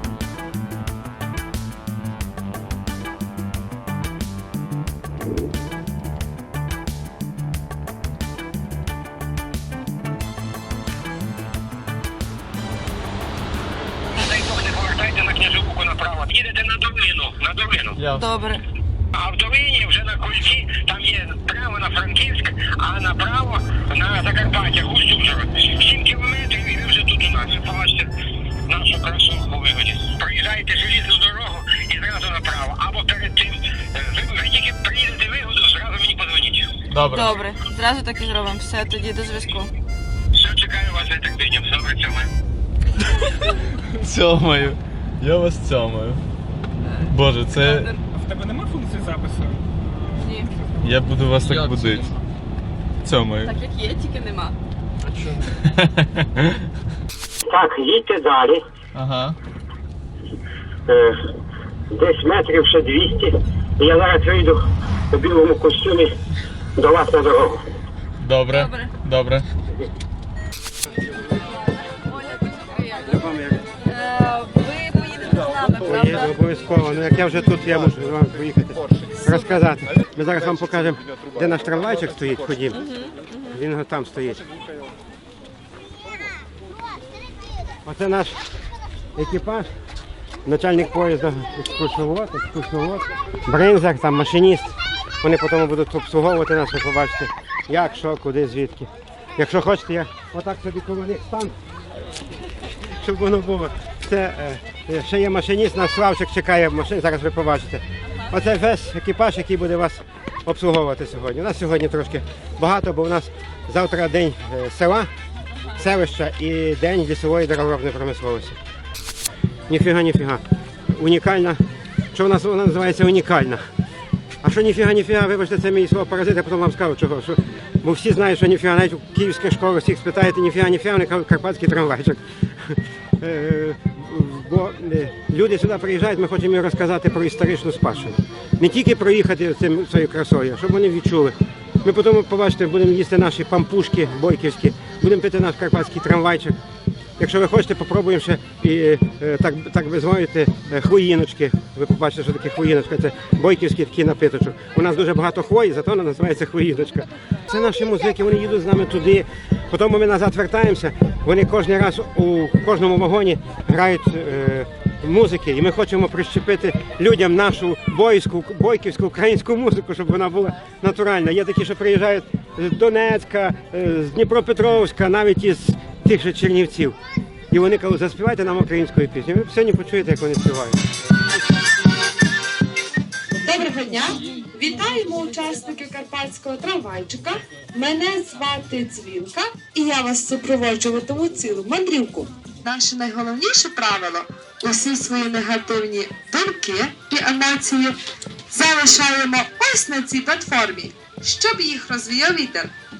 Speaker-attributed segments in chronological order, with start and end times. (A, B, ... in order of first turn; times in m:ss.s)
0:14.2-0:18.0 A
0:18.0-0:18.3 B
0:18.1-0:18.6 C
0:19.2-0:28.1 A
0:28.7-0:36.7 A
0:36.9-0:37.4 B
0:37.0-0:39.7 C
0:40.3-0:42.3 A
0:44.0-0:46.2 B
0:47.0-0:48.0 B
0:47.6-0:47.9 C
0:48.1-0:51.2 D
0:50.2-0:50.5 C
0:50.8-0:52.1 B
0:53.0-0:53.6 B
0:53.4-0:54.6 C
0:55.7-0:56.3 B
0:57.5-0:58.6 A
0:58.9-0:59.4 B
1:00.9-1:01.2 A
1:01.9-1:06.1 A
1:06.8-1:07.6 A
1:08.2-1:09.5 B
1:08.6-1:08.8 C
1:13.1-1:13.6 E
1:13.9-1:16.0 C
1:15.8-1:22.8 E
1:23.5-1:24.4 E
1:27.8-1:28.4 E
1:29.2-1:29.7 E
1:30.5-1:41.5 E
1:43.0-1:55.1 E
1:55.8-1:58.6 E
1:59.7-2:01.6 E
2:02.1-2:03.6 E
2:04.4-2:26.6 E
2:27.2-2:57.0 E
2:57.5-3:00.8 E
3:03.4-3:18.0 F
3:18.5-3:22.7 F